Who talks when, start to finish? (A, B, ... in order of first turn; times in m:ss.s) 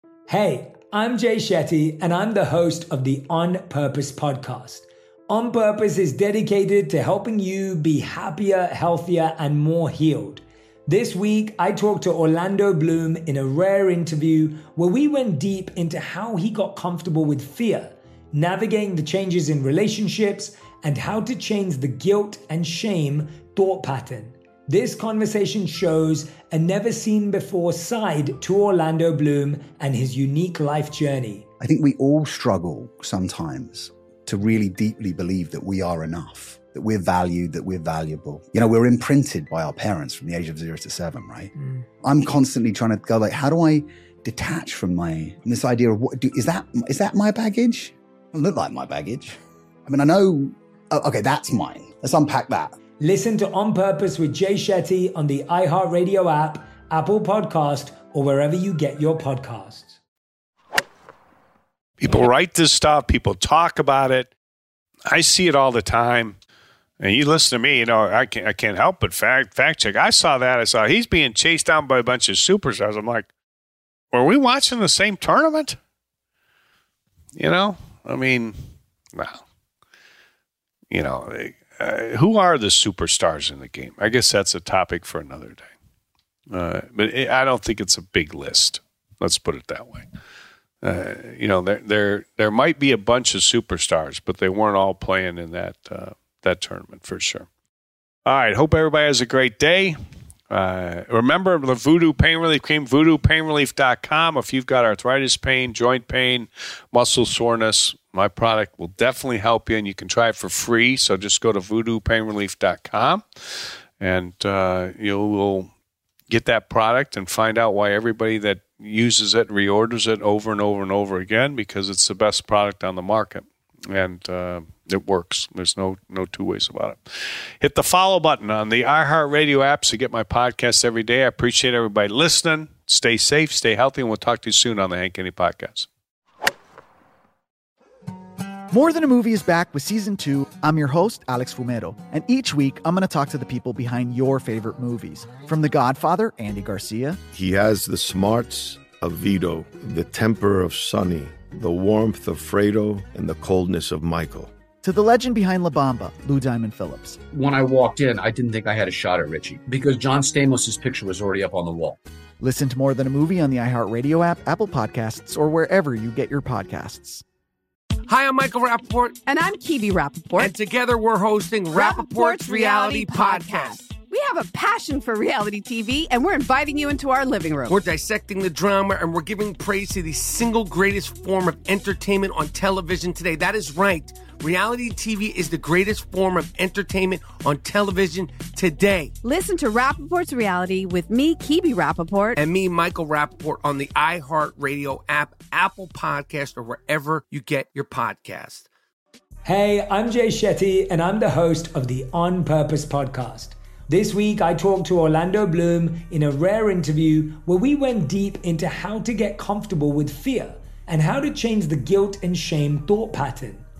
0:00.3-0:31.5 A
0:31.6-0:52.8 B
0:53.0-1:00.0 A
1:02.0-1:04.3 C
1:05.1-1:06.4 C
1:07.0-1:13.3 C
1:14.1-1:15.8 C
1:17.4-1:18.6 C
1:19.1-1:19.4 C
1:20.9-1:25.7 C
1:26.5-1:30.1 C
1:30.8-1:37.5 C
1:38.2-1:40.0 C
1:40.5-1:53.2 C
1:54.0-1:55.7 C
1:56.3-2:15.9 C
2:18.7-2:27.2 D
2:27.3-2:34.5 E
2:34.8-2:37.2 D
2:37.3-2:42.0 F
2:42.4-2:47.2 D
2:48.1-2:49.2 G
2:49.3-2:50.6 H
2:50.4-2:53.8 G
2:51.7-2:57.8 H
2:57.7-3:09.1 G
3:09.2-3:12.4 H
3:12.4-3:18.7 G
3:19.4-3:33.7 A